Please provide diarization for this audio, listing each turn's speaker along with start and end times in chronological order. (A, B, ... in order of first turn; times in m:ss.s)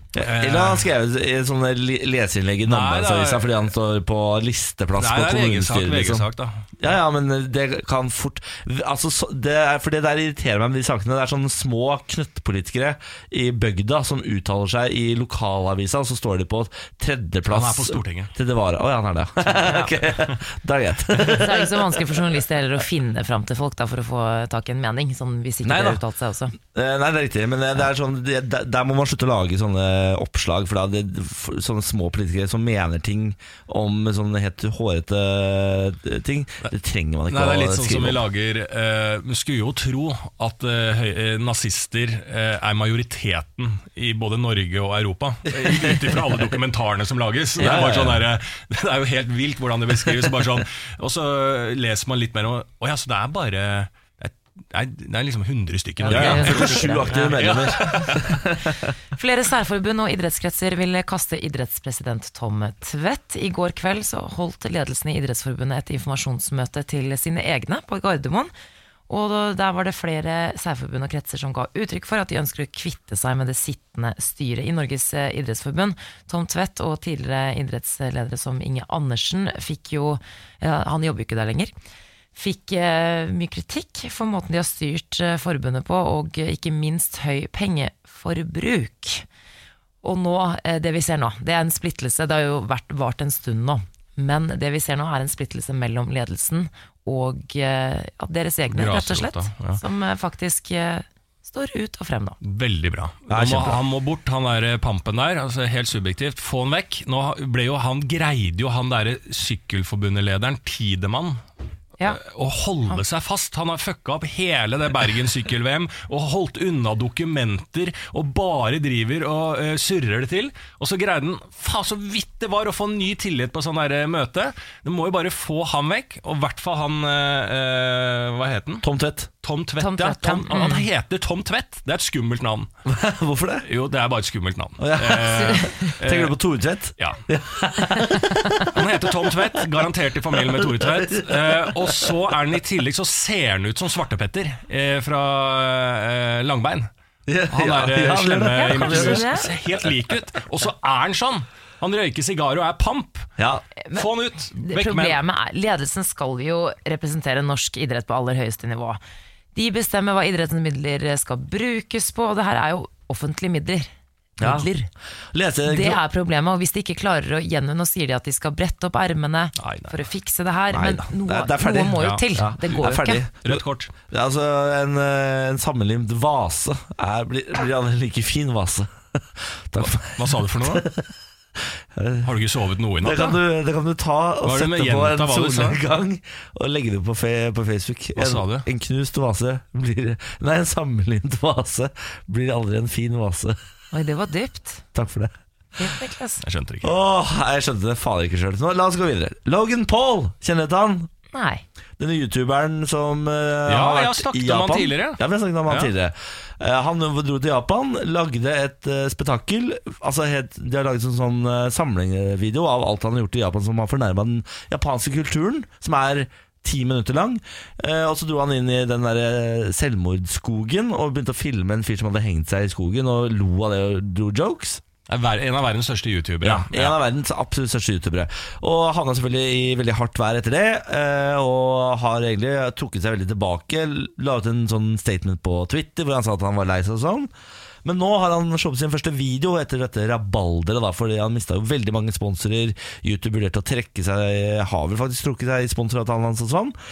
0:00.2-0:06.2 A
0:00.2-0:00.9 B
0:02.6-0:03.6 B
0:05.0-0:06.6 B
0:06.8-0:21.7 A
0:17.5-0:18.3 B
0:19.6-0:19.9 C
0:21.1-0:26.6 C
0:25.6-0:26.0 A
0:26.6-0:38.2 A
0:37.3-0:58.3 B
0:45.5-0:46.4 A
0:47.6-0:48.3 A
0:56.0-0:57.3 C
0:56.0-0:58.9 A
0:59.2-1:08.5 C
1:09.1-1:21.7 C
1:22.4-1:29.2 C
1:30.0-1:42.4 C
1:38.7-1:39.8 B
1:42.4-1:51.4 B
1:43.3-1:43.8 A
1:52.1-2:08.9 B
2:08.8-2:09.3 A
2:09.4-2:12.7 B
2:09.8-2:10.9 C
2:12.9-2:13.7 A
2:13.6-2:16.4 B
2:14.8-2:19.5 A
2:15.4-2:15.9 C
2:18.7-2:26.9 B
2:20.3-2:22.1 A
2:27.3-2:29.3 A
2:27.5-2:33.3 B
2:28.6-2:29.5 C
2:33.4-2:33.6 A
2:33.8-2:39.0 C
2:34.0-2:35.2 B
2:39.6-2:44.9 C
2:44.4-2:44.7 A
2:45.3-2:46.0 A
2:45.7-2:53.2 C
2:49.6-2:50.0 B
2:50.7-3:01.1 A
2:52.0-2:52.2 B
2:53.4-2:53.9 B
2:59.8-3:00.9 B
3:01.9-3:02.3 A
3:02.2-3:03.4 B
3:03.0-3:13.6 A
3:04.4-3:05.8 B
3:08.2-3:08.7 B
3:13.9-3:14.8 C
3:14.9-3:15.3 A
3:15.8-3:16.4 C
3:16.4-3:16.9 B
3:16.8-3:21.1 A
3:21.3-3:21.6 C
3:22.0-3:44.8 A
3:23.7-3:25.9 B
3:45.1-3:47.0 B
3:46.4-3:57.3 A
3:57.8-4:06.8 A